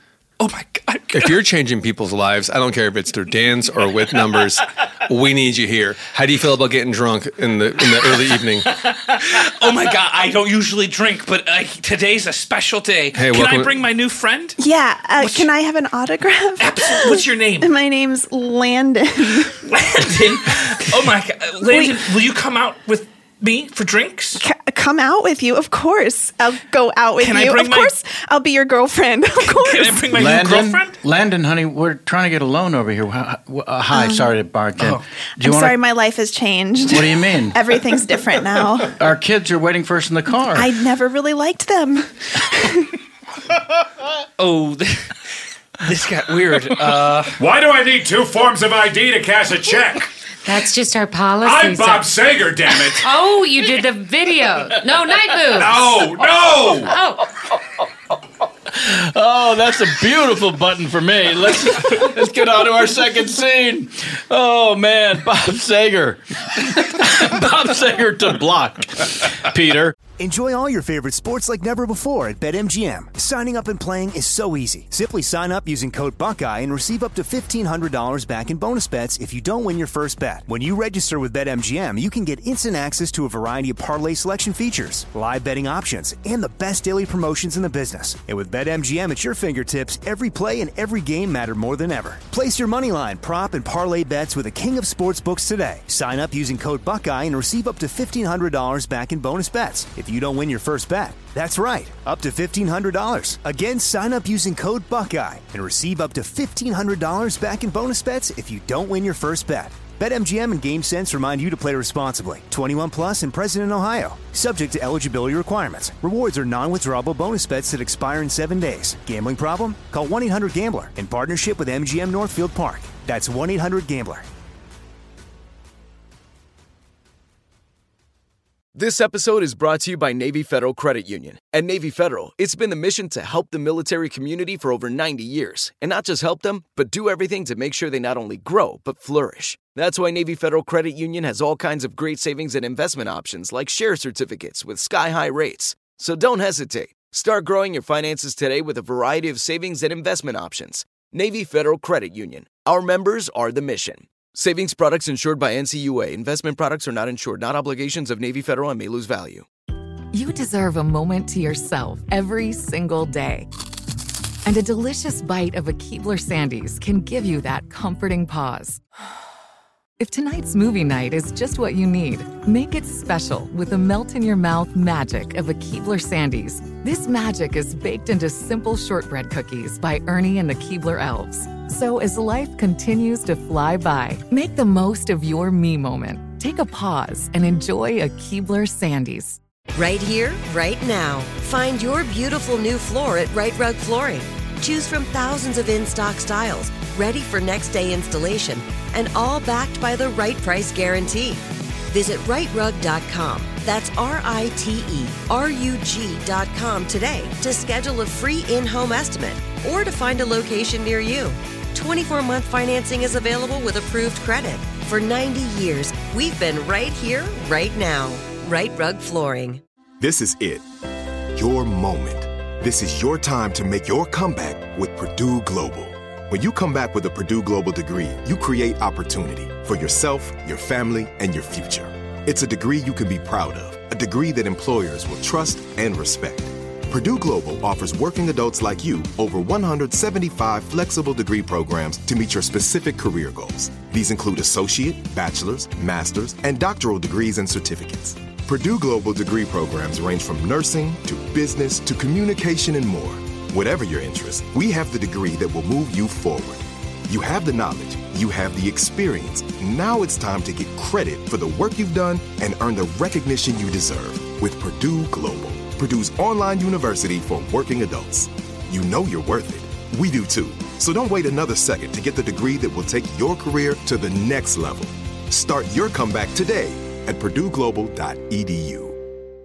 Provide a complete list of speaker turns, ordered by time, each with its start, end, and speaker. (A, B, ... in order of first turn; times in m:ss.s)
0:00.4-0:01.4 A
0:01.1-0:08.7 B
0:08.8-0:14.6 A
0:13.1-0:13.8 B
0:14.6-0:19.6 C
0:15.2-0:15.5 A
0:16.6-0:17.7 A
0:19.7-0:24.4 A
0:21.7-0:22.0 C
0:24.4-0:30.2 C
0:27.2-0:27.9 A
0:29.4-0:31.0 A
0:30.1-0:35.8 D
0:33.9-0:34.4 C
0:35.4-0:38.9 C
0:36.9-0:37.7 D
0:38.9-0:40.7 D
0:40.5-0:42.9 C
0:44.4-0:45.1 A
0:45.8-0:47.4 A
0:47.4-0:50.1 E
0:50.4-0:52.2 F
0:51.4-0:53.1 E
0:52.8-0:57.3 F
0:55.5-0:57.0 E
0:58.7-1:10.0 D
1:10.2-2:04.2 G
2:08.8-2:39.5 H
2:40.1-2:43.5 I
2:44.4-2:48.8 I
2:50.0-3:09.4 I
3:09.8-3:39.6 J
3:40.0-3:40.6 K
3:41.4-4:39.0 K